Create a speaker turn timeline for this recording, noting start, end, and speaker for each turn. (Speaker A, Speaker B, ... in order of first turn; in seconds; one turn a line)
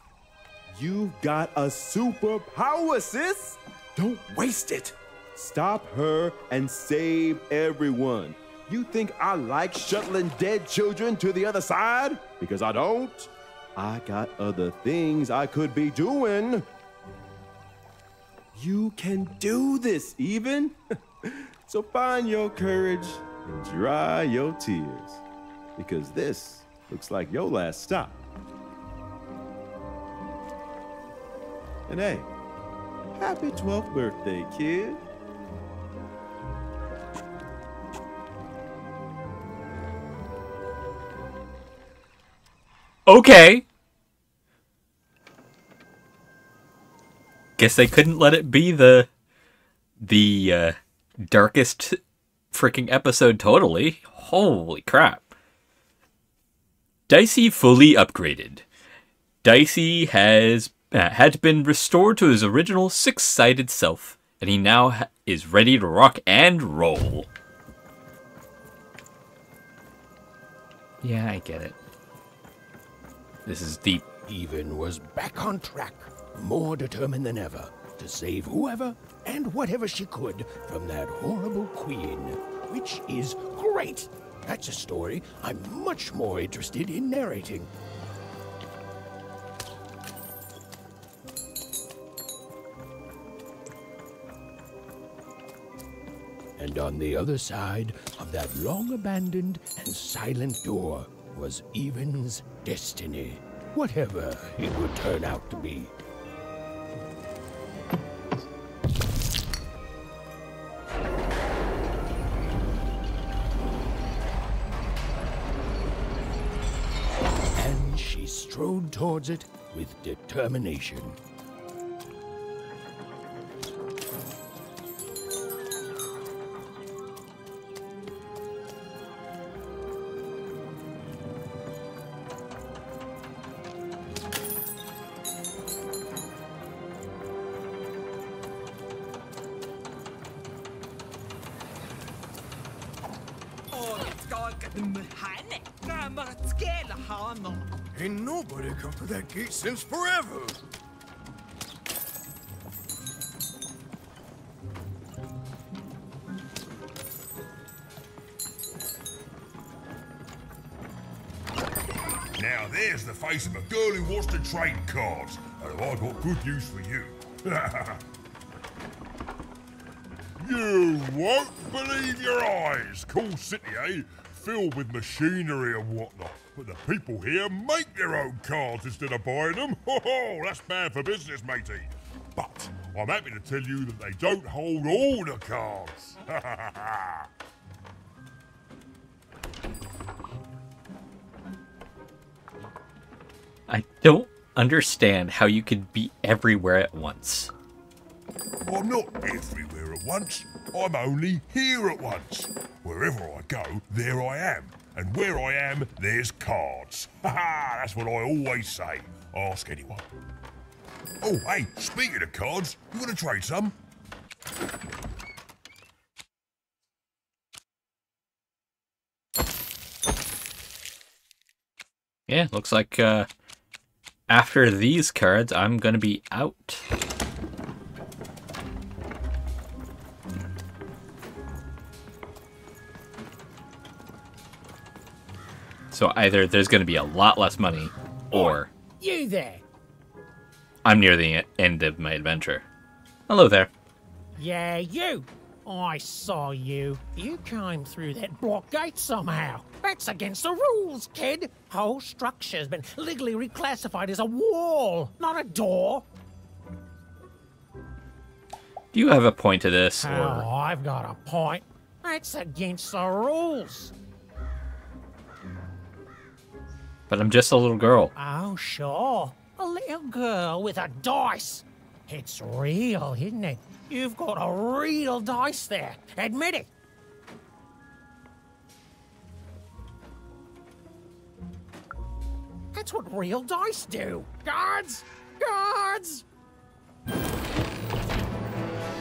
Speaker A: 0.7-16.6
Speaker A: 18.5-25.2
Speaker A: 25.8-28.2
Speaker A: 31.9-32.3
Speaker A: 33.2-35.0
Speaker B: 43.1-43.6
Speaker B: 47.6-49.1
Speaker B: 50.0-52.0
Speaker B: 52.5-55.3
Speaker B: 57.1-58.6
Speaker B: 59.4-67.3
Speaker B: 71.0-71.8
Speaker B: 73.5-74.0
Speaker C: 74.2-87.7
Speaker C: 96.6-105.9
Speaker C: 117.5-121.2
Speaker D: 143.7-150.6
Speaker E: 162.4-168.0
Speaker E: 170.4-187.3
Speaker B: 193.7-197.5
Speaker E: 198.6-210.1
Speaker E: 211.2-213.8
Speaker B: 222.3-223.3
Speaker B: 224.3-226.8
Speaker B: 235.9-238.7
Speaker F: 238.3-239.6
Speaker B: 240.8-242.6
Speaker B: 243.3-243.7
Speaker F: 244.3-256.1
Speaker B: 258.9-260.5
Speaker F: 260.0-263.9
Speaker B: 267.1-268.1
Speaker F: 268.1-276.7
Speaker F: 282.7-286.2